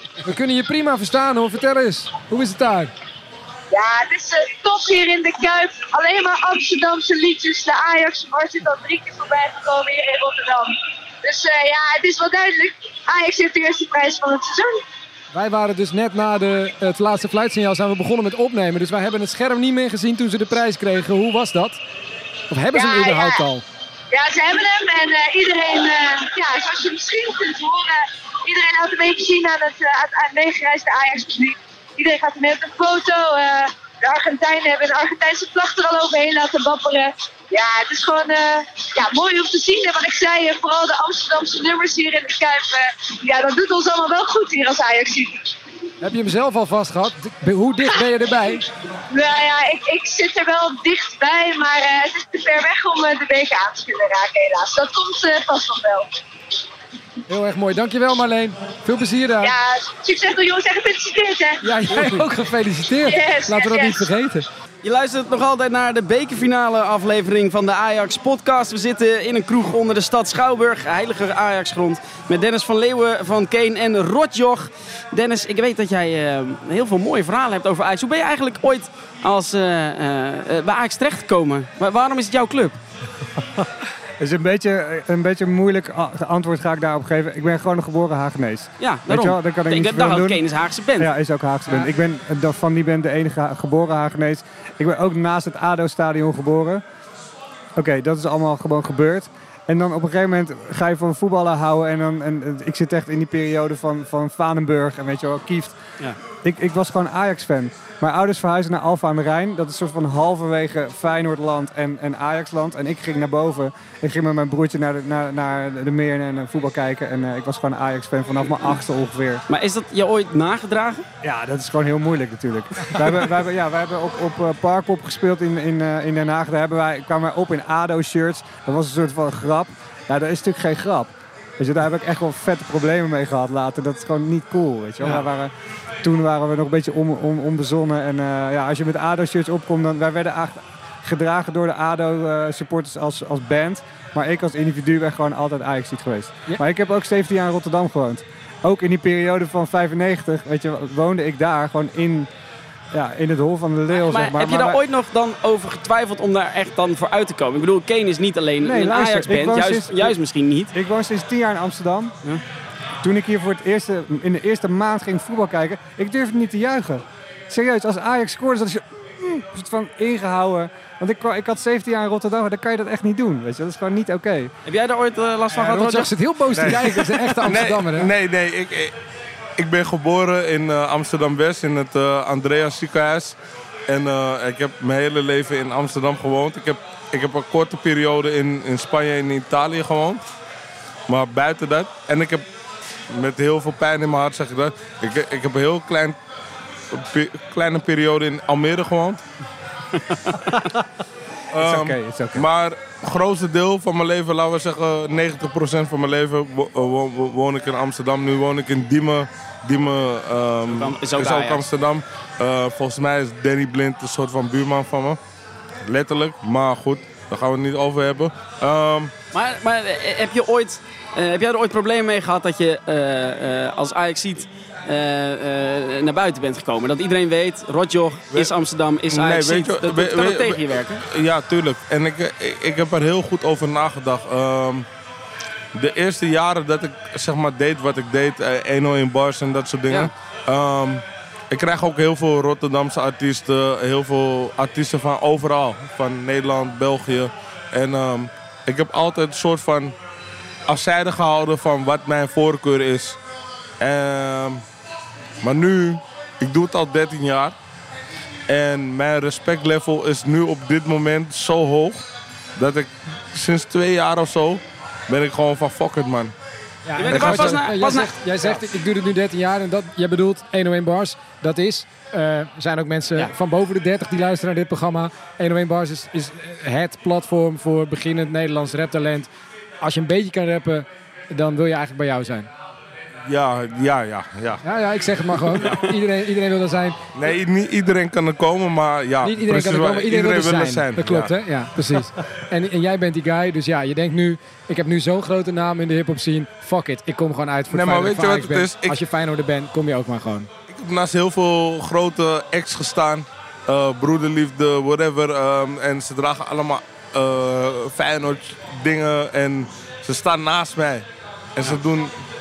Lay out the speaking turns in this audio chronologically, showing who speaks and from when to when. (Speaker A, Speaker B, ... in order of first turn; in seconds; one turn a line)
Speaker A: 0.2-2.9
Speaker B: 3.7-14.8
Speaker A: 15.3-21.8
Speaker A: 22.5-23.6
Speaker B: 22.7-23.4
Speaker B: 24.1-45.5
Speaker A: 46.0-48.6
Speaker B: 49.1-56.2
Speaker A: 57.3-59.5
Speaker B: 59.4-62.2
Speaker A: 61.6-64.5
Speaker B: 63.0-64.1
Speaker C: 64.8-82.8
Speaker D: 84.2-90.4
Speaker C: 88.8-91.1
Speaker D: 91.0-96.8
Speaker D: 97.8-105.8
Speaker D: 106.4-119.4
Speaker C: 119.5-121.0
Speaker D: 121.2-135.5
Speaker D: 136.0-152.3
Speaker D: 152.9-154.8
Speaker C: 153.9-160.7
Speaker D: 158.6-160.1
Speaker D: 160.7-162.1
Speaker D: 163.0-174.5
Speaker C: 174.7-176.1
Speaker A: 175.5-178.1
Speaker E: 176.5-178.9
Speaker E: 179.6-190.2
Speaker E: 191.1-192.4
Speaker E: 193.1-196.2
Speaker E: 196.9-199.2
Speaker C: 199.9-200.6
Speaker E: 201.5-215.2
Speaker D: 201.6-202.5
Speaker C: 210.7-211.7
Speaker E: 215.8-219.1
Speaker C: 219.3-231.0
Speaker E: 229.1-234.9
Speaker E: 235.7-249.9
Speaker E: 250.7-253.2
Speaker E: 253.8-254.6
Speaker E: 255.4-257.5
Speaker E: 258.5-262.0
Speaker E: 262.6-266.3
Speaker A: 266.8-282.5
Speaker C: 267.0-268.6
Speaker E: 267.0-267.7
Speaker E: 283.3-284.6
Speaker A: 284.6-287.0
Speaker C: 285.6-285.9
Speaker E: 287.1-291.3
Speaker A: 289.2-300.5
Speaker E: 297.7-299.0
Speaker E: 300.7-312.1